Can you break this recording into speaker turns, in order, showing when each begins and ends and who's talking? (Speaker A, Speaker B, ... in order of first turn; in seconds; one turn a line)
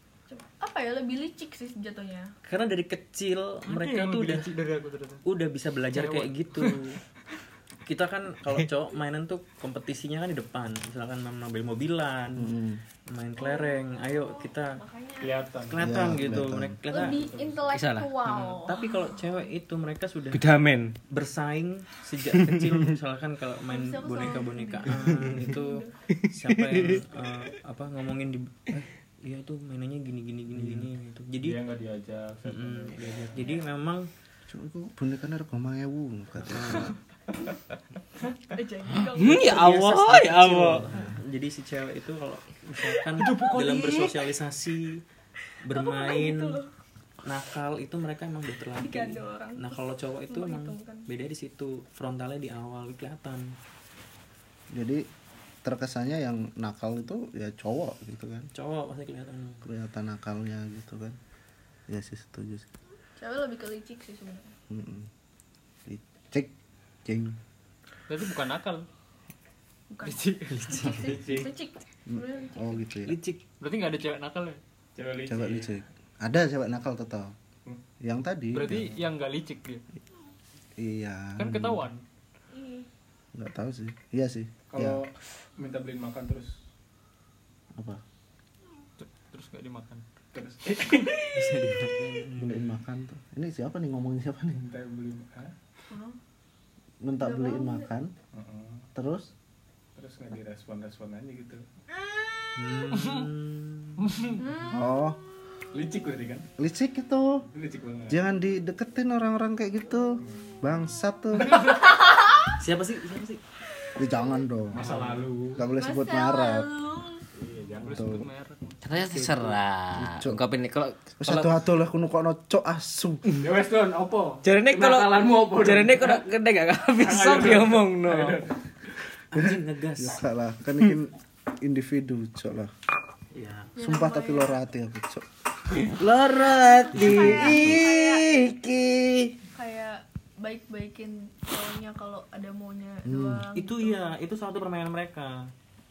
Speaker A: 0.3-2.3
Speaker B: 2.5-4.5
Speaker C: 3.7-5.2
Speaker B: 5.2-7.0
Speaker C: 5.9-6.8
Speaker B: 7.9-12.5
Speaker D: 12.4-12.8
Speaker B: 13.1-14.8
Speaker A: 13.4-15.4
Speaker E: 15.2-16.4
Speaker B: 15.7-17.4
Speaker D: 15.8-16.8
Speaker A: 16.9-19.0
Speaker E: 16.9-17.7
Speaker F: 17.7-18.2
Speaker B: 18.2-20.5
Speaker F: 20.3-21.0
Speaker B: 21.1-31.6
Speaker F: 22.3-22.9
Speaker A: 23.7-25.9
Speaker F: 26.1-27.1
Speaker D: 30.6-30.9
Speaker E: 31.4-33.5
Speaker B: 32.5-34.1
Speaker D: 34.5-37.0
Speaker B: 36.4-36.9
Speaker A: 38.5-39.6
Speaker F: 39.0-40.9
Speaker B: 39.3-45.0
Speaker D: 40.9-41.2
Speaker C: 42.8-44.3
Speaker B: 45.6-46.6
Speaker A: 45.7-46.7
Speaker B: 47.2-53.5
Speaker A: 48.8-51.1
Speaker D: 54.7-55.1
Speaker D: 55.6-58.5
Speaker B: 58.5-59.6
Speaker D: 59.6-61.2
Speaker D: 61.9-62.7
Speaker A: 63.1-64.5
Speaker D: 64.7-65.1
Speaker D: 65.9-66.5
Speaker D: 67.0-67.4
Speaker C: 68.1-68.8
Speaker A: 69.9-72.8
Speaker C: 70.0-71.0
Speaker B: 70.5-71.5
Speaker E: 71.0-71.5
Speaker D: 72.1-73.2
Speaker B: 73.1-73.4
Speaker C: 73.6-74.6
Speaker E: 75.0-75.8
Speaker D: 75.3-77.3
Speaker D: 78.0-78.9
Speaker C: 78.5-79.8
Speaker D: 80.8-81.9
Speaker C: 81.4-82.0
Speaker A: 82.5-82.9
Speaker D: 83.3-85.0
Speaker E: 84.7-86.5
Speaker D: 87.8-88.0
Speaker C: 89.0-90.0
Speaker E: 90.3-91.2
Speaker C: 90.8-91.5
Speaker B: 91.3-92.7
Speaker D: 92.4-94.6
Speaker E: 94.5-95.5
Speaker A: 95.9-96.2
Speaker D: 97.0-98.1
Speaker A: 97.2-97.9
Speaker E: 98.3-98.8
Speaker D: 99.0-99.3
Speaker E: 100.0-101.6
Speaker B: 102.6-104.1
Speaker E: 104.0-104.4
Speaker A: 104.4-105.0
Speaker D: 104.7-105.2
Speaker E: 105.7-106.5
Speaker D: 106.6-107.5
Speaker E: 107.5-108.2
Speaker D: 108.1-111.6
Speaker A: 111.5-112.6
Speaker B: 112.5-113.4
Speaker A: 113.9-114.4
Speaker D: 114.0-114.9
Speaker E: 114.7-115.6
Speaker B: 114.8-115.3
Speaker D: 115.5-116.7
Speaker A: 115.8-117.2
Speaker E: 117.3-118.2
Speaker C: 117.8-118.8
Speaker D: 117.9-118.2
Speaker F: 118.8-121.5
Speaker D: 119.1-120.4
Speaker D: 121.2-123.2
Speaker E: 123.3-126.2
Speaker F: 124.4-128.4
Speaker E: 127.0-129.0
Speaker B: 129.3-130.2
Speaker D: 129.3-132.7
Speaker B: 133.3-133.7
Speaker A: 133.8-134.6
Speaker D: 133.8-135.2
Speaker F: 135.8-139.3
Speaker A: 136.7-138.3
Speaker D: 137.1-137.6
Speaker A: 139.6-144.0
Speaker D: 143.1-143.4
Speaker B: 143.6-145.5